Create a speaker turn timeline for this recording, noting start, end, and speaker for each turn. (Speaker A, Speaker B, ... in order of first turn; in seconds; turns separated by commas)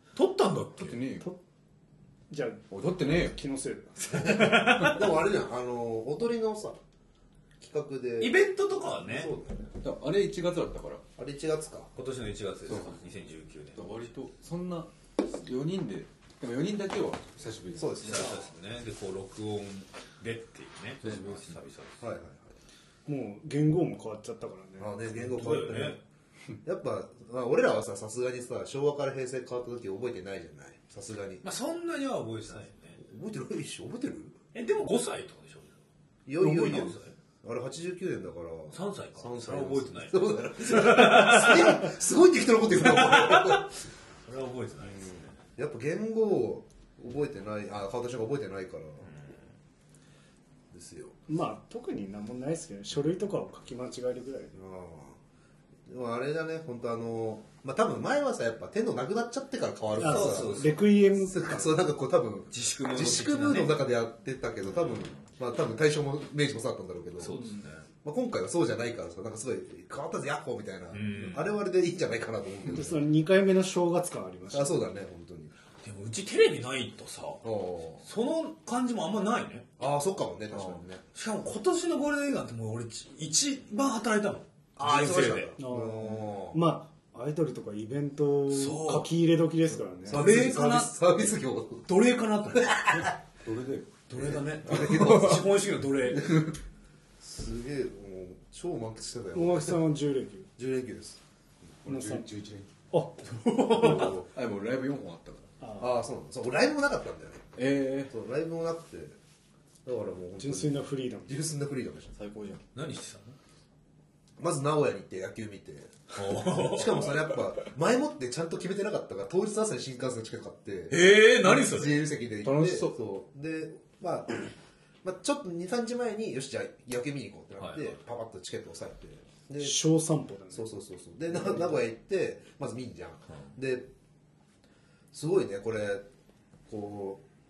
Speaker A: 0.1-1.0, Speaker B: 0.8-1.3, Speaker C: 2.3-4.5, Speaker B: 2.7-3.3, Speaker A: 4.1-5.1, Speaker D: 4.3-6.8, Speaker D: 7.6-8.4, Speaker A: 8.2-9.3, Speaker D: 9.0-9.7, Speaker B: 9.8-11.0, Speaker D: 11.2-11.9, Speaker A: 11.9-13.8, Speaker B: 12.7-12.9, Speaker B: 13.8-18.3, Speaker D: 17.7-18.5, Speaker A: 18.0-22.0, Speaker B: 21.0-21.6, Speaker D: 22.0-22.5, Speaker C: 23.1-25.0, Speaker D: 24.8-26.0, Speaker A: 25.3-26.0, Speaker D: 26.6-31.4, Speaker A: 31.4-33.0, Speaker D: 33.0-34.4, Speaker A: 34.5-35.8, Speaker D: 36.2-43.7, Speaker A: 36.4-37.1, Speaker A: 38.7-41.9, Speaker A: 42.7-43.7, Speaker A: 44.3-45.3, Speaker D: 44.9-49.1, Speaker D: 50.7-51.1, Speaker C: 51.3-54.5, Speaker D: 54.5-55.2, Speaker D: 55.9-67.4, Speaker A: 60.0-60.8, Speaker C: 60.0-61.6, Speaker A: 62.5-63.7, Speaker A: 67.2-67.8, Speaker D: 68.0-73.0, Speaker A: 70.9-71.5, Speaker C: 72.7-74.7, Speaker D: 74.5-75.5, Speaker A: 75.8-77.4, Speaker D: 77.4-78.0, Speaker A: 78.0-79.7, Speaker D: 79.8-81.0, Speaker A: 81.1-85.5, Speaker D: 84.8-86.6, Speaker C: 85.6-90.2, Speaker A: 88.5-89.1, Speaker D: 90.0-91.9, Speaker A: 90.1-90.9, Speaker A: 91.9-93.0, Speaker D: 92.5-93.1, Speaker B: 93.4-93.9, Speaker A: 94.1-96.5, Speaker D: 94.1-96.6, Speaker B: 94.9-95.4, Speaker D: 97.2-99.8, Speaker C: 99.3-100.5, Speaker D: 100.6-101.2, Speaker B: 101.8-102.7, Speaker C: 101.8-102.2, Speaker C: 102.9-104.0, Speaker A: 103.7-104.2, Speaker D: 103.7-104.3, Speaker B: 103.7-105.5, Speaker C: 105.6-105.9, Speaker D: 105.8-107.5, Speaker B: 107.5-108.1, Speaker D: 108.1-109.2, Speaker D: 109.8-112.1, Speaker C: 110.4-111.4, Speaker B: 112.1-112.6, Speaker A: 112.7-113.3, Speaker D: 114.4-124.5, Speaker A: 116.1-117.1, Speaker A: 120.9-122.0, Speaker B: 122.4-123.0, Speaker D: 125.0-129.8, Speaker A: 127.6-127.9, Speaker C: 129.6-130.7, Speaker D: 130.5-133.9, Speaker D: 135.1-136.0, Speaker D: 136.7-137.2